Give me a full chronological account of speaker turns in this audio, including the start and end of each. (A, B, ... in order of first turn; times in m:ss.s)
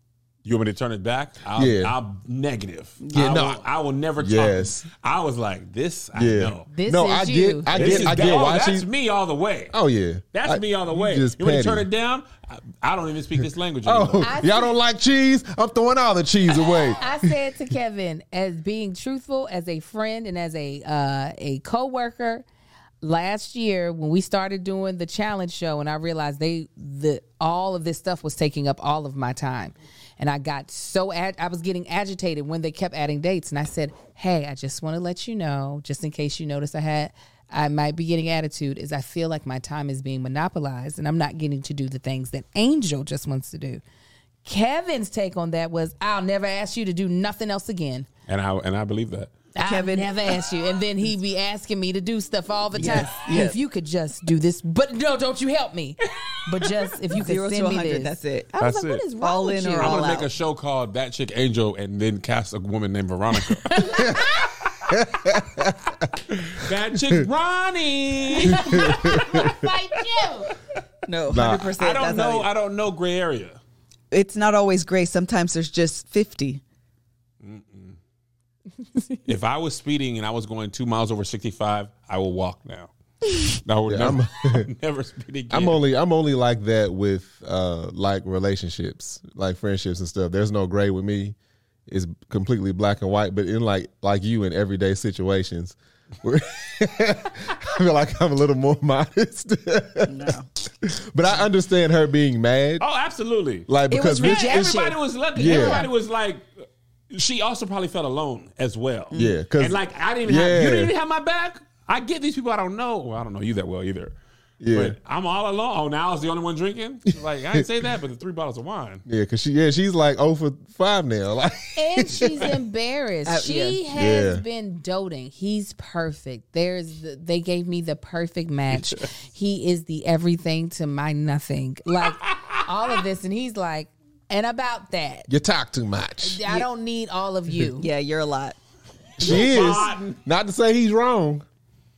0:00.4-0:06.7 A
0:01.6-0:02.0 B
0:03.0-0:03.3 C
0:03.1-0:03.6 B
0:04.2-0:04.9 B
0:06.2-0:08.9 B
0:06.7-0:08.2 D
0:07.7-0:09.8 A
0:09.7-0:11.9 B
0:10.3-0:14.3 A
0:13.8-0:17.3 B
0:14.2-0:14.7 D
0:16.6-0:22.4 D
0:23.0-0:43.8 D
0:44.4-0:48.1 D
0:48.3-0:49.4 A
0:49.6-1:00.2 D
0:49.6-0:50.4 C
0:52.7-0:53.6 C
0:57.2-0:58.6 C
0:58.6-0:59.0 A
0:59.2-1:00.3 C
0:59.8-1:04.2 A
1:03.4-1:04.7 D
1:04.9-1:05.8 B
1:06.3-1:09.7 A
1:08.4-1:10.5 D
1:08.5-1:09.5 B
1:10.2-1:10.6 A
1:11.1-1:12.5 C
1:11.3-1:11.8 B
1:11.3-1:13.6 A
1:14.1-1:16.6 C
1:17.4-1:18.0 A
1:19.2-1:25.8 A
1:23.9-1:24.7 B
1:25.5-1:31.4 B
1:31.9-1:42.8 B
1:40.1-1:40.5 C
1:42.8-1:43.7 A
1:43.7-1:45.9 B
1:43.9-1:45.9 C
1:44.2-1:54.2 A
1:49.1-1:50.9 B
1:54.6-1:55.0 B
1:54.7-1:59.0 A
1:59.1-2:02.5 B
2:01.8-2:15.3 D
2:03.3-2:03.8 C
2:03.9-2:04.4 B
2:08.7-2:09.0 A
2:12.0-2:12.6 A
2:15.3-2:16.4 B
2:16.2-2:17.9 D
2:17.7-2:18.6 C
2:19.2-2:20.2 A
2:19.2-2:21.4 B
2:19.2-2:20.0 D